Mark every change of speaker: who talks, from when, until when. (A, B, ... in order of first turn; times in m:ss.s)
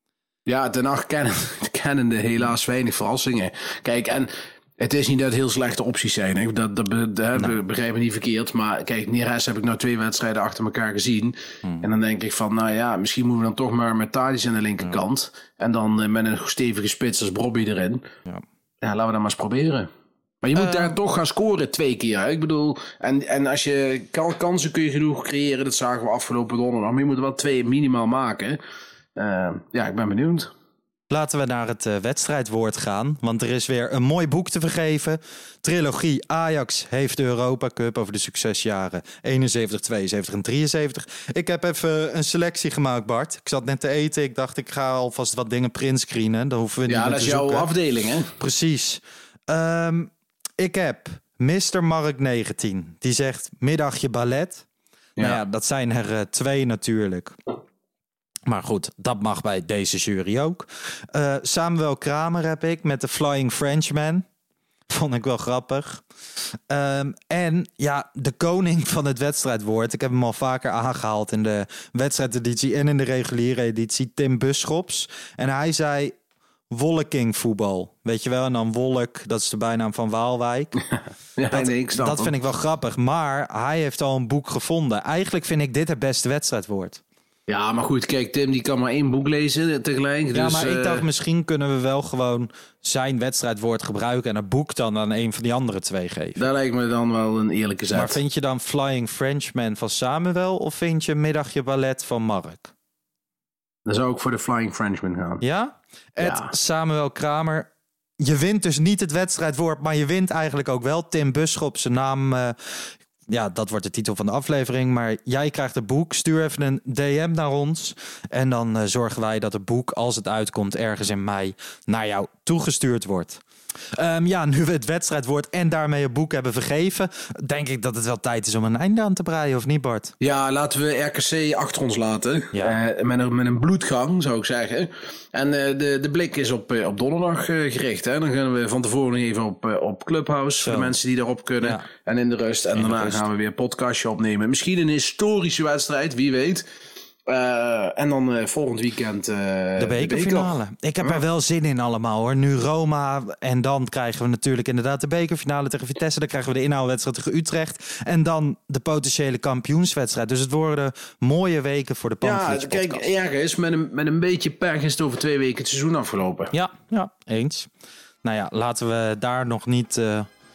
0:00.5-0:18.0 A
0:18.8-0:19.9 A
0:20.4-0:28.6 A
0:20.6-0:21.0 B
0:29.2-0:30.5 A
0:31.1-0:47.7 B
0:46.9-0:48.3 A
0:48.4-0:54.6 B
0:55.2-0:57.4 B
0:58.5-1:04.2 B
1:04.9-1:06.0 B
1:06.7-1:16.1 B
1:16.7-1:20.8 B
1:20.9-1:22.3 A
1:21.5-1:27.0 B
1:27.5-1:31.0 A
1:30.3-1:36.4 B
1:36.4-1:38.2 A
1:37.9-1:42.7 B
1:43.9-1:45.4 A
1:45.4-1:47.7 B
1:46.2-1:46.5 A
1:48.2-2:03.4 B
2:04.0-2:10.1 B
2:10.2-2:26.6 A
2:20.6-2:21.0 B
2:22.8-2:23.3 B
2:27.3-2:31.2 A
2:29.8-2:43.1 B
2:42.2-2:46.5 A
2:46.5-2:47.7 B
2:48.2-2:50.3 B